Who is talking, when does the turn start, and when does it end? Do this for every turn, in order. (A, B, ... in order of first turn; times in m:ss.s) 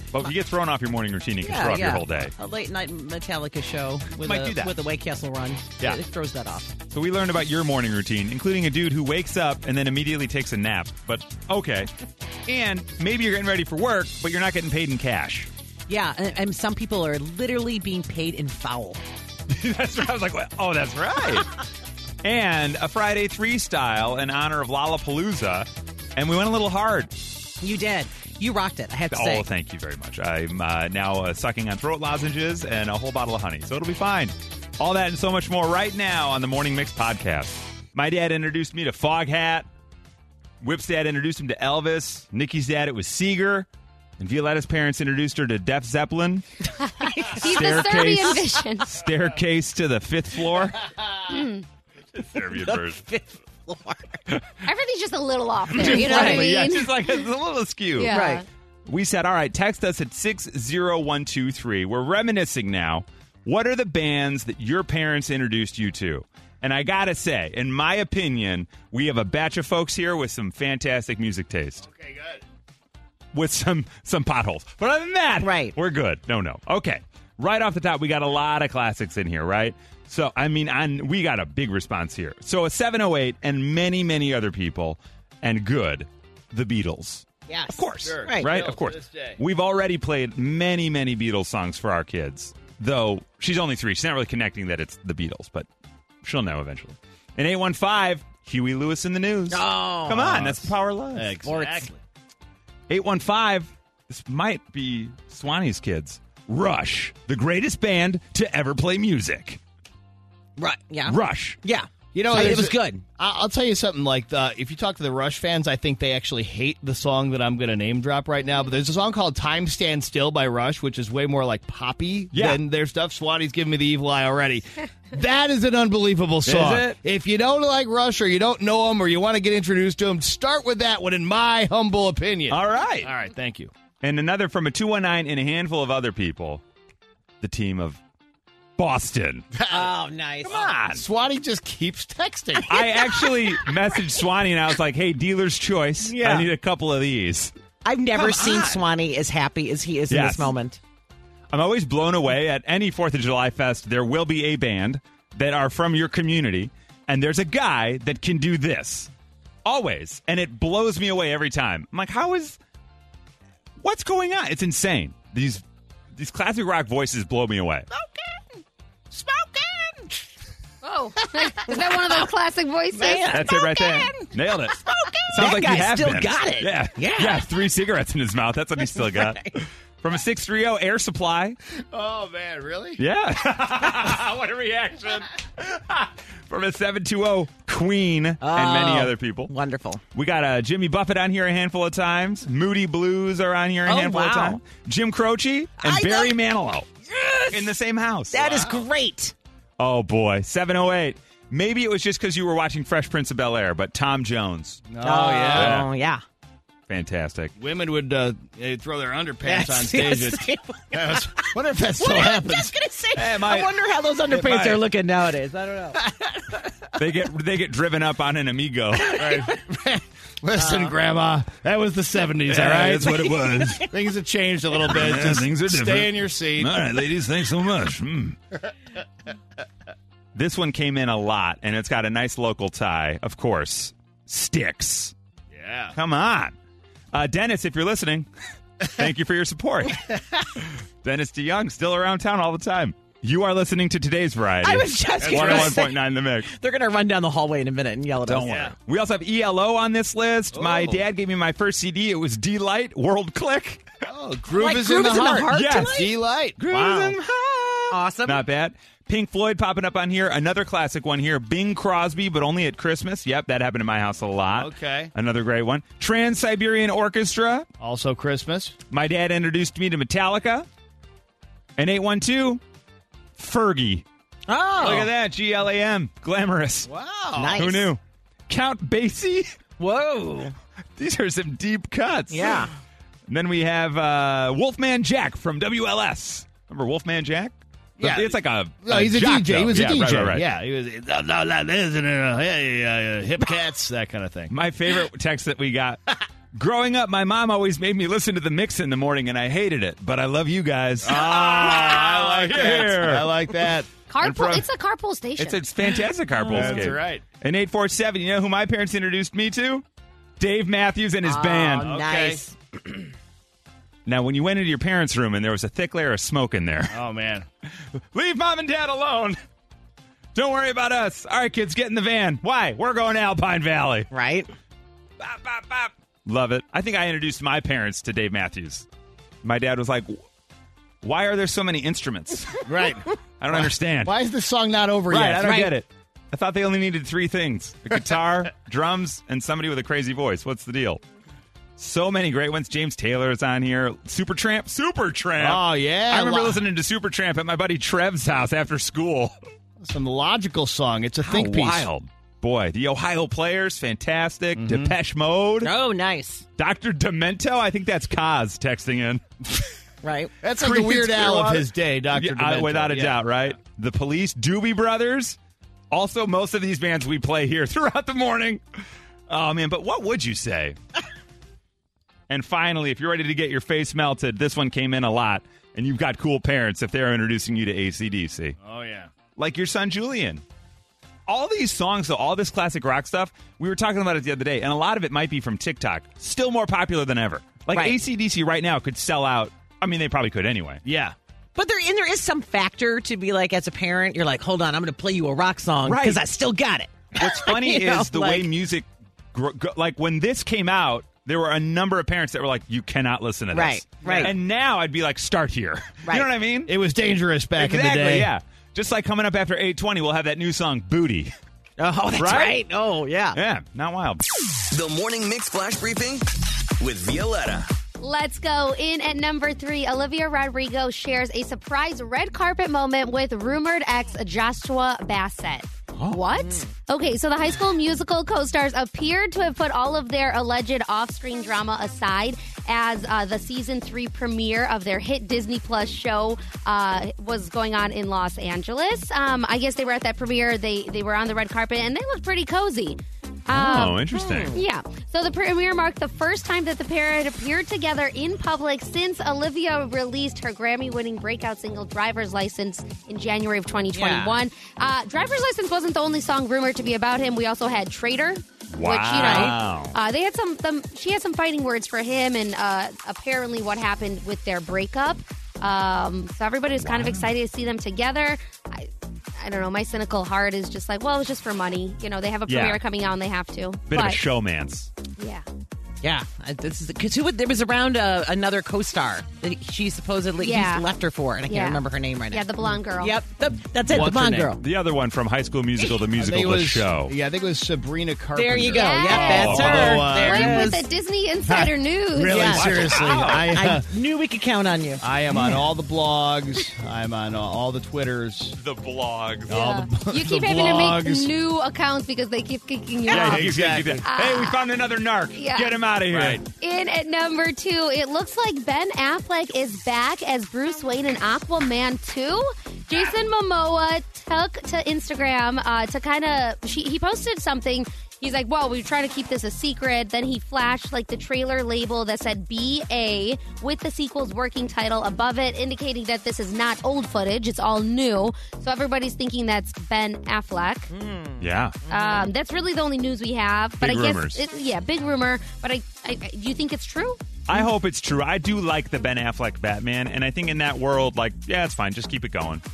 0:00.1-0:02.3 A
0:01.4-0:06.7 B
0:04.2-0:04.7 A
0:06.9-0:11.9 A
0:12.4-0:15.5 A
0:15.9-0:19.0 B
0:19.5-0:21.5 A
0:22.2-0:27.1 A
0:27.6-0:29.4 B
0:29.1-0:39.7 A
0:40.6-0:43.7 A
0:44.2-0:46.4 A
0:46.8-0:49.0 C
0:47.2-0:47.5 B
0:47.3-0:50.8 A
0:51.3-0:51.6 C
0:52.1-0:53.0 A
0:52.3-0:54.2 B
0:54.6-0:56.9 C
0:55.7-0:58.1 A
0:55.8-0:56.5 B
0:58.0-0:58.4 C
0:58.1-0:58.4 B
0:58.9-1:11.8 A
1:11.8-1:12.4 D
1:13.3-1:35.7 A
1:15.4-1:15.7 B
1:27.5-1:28.5 B
1:28.0-1:29.4 D
1:36.2-1:41.4 A
1:39.5-1:40.6 B
1:41.1-1:42.0 D
1:41.4-1:41.9 B
1:42.9-1:49.6 A
1:50.6-1:53.0 B
1:51.0-1:51.6 A
1:52.1-2:13.7 D
2:02.3-2:02.6 A
2:06.4-2:07.0 A
2:12.5-2:13.1 A
2:14.0-2:16.6 A
2:17.4-2:18.0 A
2:18.8-2:19.4 A
2:19.5-2:19.9 D
2:19.7-2:20.7 B
2:20.4-2:21.0 A
2:20.6-2:22.7 D
2:22.6-2:27.5 A
2:26.0-2:26.5 B
2:27.8-2:30.8 B
2:28.1-2:28.8 A
2:30.1-2:30.5 A
2:31.5-2:39.1 A
2:39.6-2:42.6 A
2:43.8-2:45.6 A
2:46.1-2:47.9 A
2:49.2-2:49.9 B
2:50.8-2:53.5 C
2:51.2-2:52.3 B
2:52.9-2:57.5 B
2:53.3-2:54.8 A
2:55.3-3:01.6 A
2:58.8-2:59.5 B
3:01.8-3:03.0 D
3:03.0-3:09.5 A
3:08.4-3:10.0 B
3:10.1-3:16.9 A
3:13.8-3:14.6 B
3:15.8-3:16.4 B
3:17.0-3:17.7 B
3:17.5-3:18.4 A
3:18.3-3:19.3 B
3:18.4-3:18.8 D
3:19.8-3:24.8 A
3:24.9-3:25.8 D
3:25.0-3:26.2 B
3:25.5-3:25.9 A
3:26.9-3:27.5 A
3:27.6-3:32.7 D
3:29.4-3:36.0 B
3:33.2-3:33.8 A
3:34.3-3:34.8 A
3:36.0-3:36.3 D
3:37.0-3:39.2 A
3:39.1-3:46.9 D
3:40.6-3:40.9 B
3:42.5-3:43.8 A
3:44.9-3:48.4 A
3:50.3-3:55.1 A
3:55.5-3:56.0 D
3:55.9-3:56.5 A
3:57.1-3:58.3 A
3:58.8-4:00.1 A
4:00.7-4:06.5 A
4:04.6-4:08.7 B
4:05.2-4:05.8 D
4:08.2-4:13.9 A
4:08.4-4:08.7 D
4:10.5-4:11.0 D
4:14.0-4:17.2 D
4:14.6-4:16.1 B
4:15.5-4:16.0 A
4:16.6-4:27.7 A
4:17.9-4:18.4 B
4:24.6-4:25.1 D
4:27.8-4:28.8 D
4:28.9-4:30.7 A
4:31.8-4:32.6 A
4:33.4-4:34.0 A
4:34.5-4:35.1 B
4:34.8-4:36.9 A
4:36.8-4:37.6 D
4:37.4-4:37.9 B
4:37.6-4:39.6 A
4:39.8-4:40.5 B
4:41.0-4:42.6 A
4:42.3-4:42.7 B
4:43.3-4:50.4 A
4:48.0-4:54.5 D
4:54.5-4:56.0 A
4:56.5-5:03.5 A
5:01.0-5:04.6 D
5:04.1-5:05.6 C
5:05.4-5:09.8 A
5:06.3-5:07.0 B
5:06.5-5:07.2 D
5:10.4-5:12.0 A
5:11.2-5:12.5 B
5:11.8-5:12.4 D
5:14.0-5:17.0 A
5:16.9-5:17.5 D
5:17.9-5:19.4 A
5:20.3-5:24.1 A
5:24.1-5:24.5 B
5:25.2-5:28.9 A
5:29.4-5:30.2 A
5:31.0-5:32.7 A
5:32.6-5:35.6 D
5:33.4-5:34.1 A
5:35.1-5:41.0 A
5:35.4-5:35.7 B
5:41.8-5:49.3 A
5:45.4-5:46.6 D
5:49.8-5:51.9 D
5:51.2-5:55.7 A
5:54.6-5:54.9 D
5:55.6-5:56.4 B
5:56.6-5:59.2 A
6:00.0-6:00.3 B
6:00.4-6:03.3 D
6:00.6-6:05.4 A
6:05.9-6:08.6 A
6:09.3-6:10.8 A
6:12.3-6:18.6 A
6:18.6-6:19.1 D
6:19.4-6:20.4 A
6:21.3-6:30.8 A
6:27.7-6:28.0 B
6:30.8-6:31.2 D
6:31.6-6:38.5 B
6:35.8-6:36.2 A
6:37.1-6:46.7 A
6:43.5-6:44.3 B
6:44.0-6:44.3 D
6:46.7-6:48.3 D
6:47.6-6:51.3 A
6:51.8-6:53.4 B
6:52.2-6:52.6 A
6:53.3-6:54.2 A
6:54.7-6:56.2 E
6:56.8-6:57.7 E
6:58.0-7:54.2 C
7:05.9-7:06.2 A
7:06.4-7:06.7 B
7:23.5-7:24.5 A
7:23.7-7:24.6 B
7:33.9-7:34.4 B
7:38.7-7:40.0 A
7:39.2-7:39.5 B
7:46.8-7:47.3 A
7:52.5-7:52.8 A
7:53.9-7:54.9 A
7:55.2-7:55.4 C
7:56.0-8:04.6 B
8:00.4-8:00.9 C
8:01.4-8:03.2 C
8:03.9-8:04.5 D
8:04.6-8:07.1 A
8:06.1-8:10.8 D
8:08.3-8:10.8 B
8:08.7-8:12.6 C
8:09.1-8:10.0 A
8:11.4-8:13.9 D
8:12.3-8:15.0 B
8:12.5-8:13.5 A
8:15.0-8:18.6 D
8:15.3-8:15.6 A
8:18.6-8:19.6 A
8:19.5-8:21.3 D
8:19.5-8:24.7 C
8:23.1-8:26.4 A
8:23.1-8:24.0 D
8:25.4-8:25.8 C
8:26.1-8:26.4 D
8:26.5-8:50.9 C
8:50.9-8:52.3 B
8:51.4-8:51.8 A
8:51.9-8:57.2 C
8:53.8-8:54.4 A
8:57.5-9:02.6 A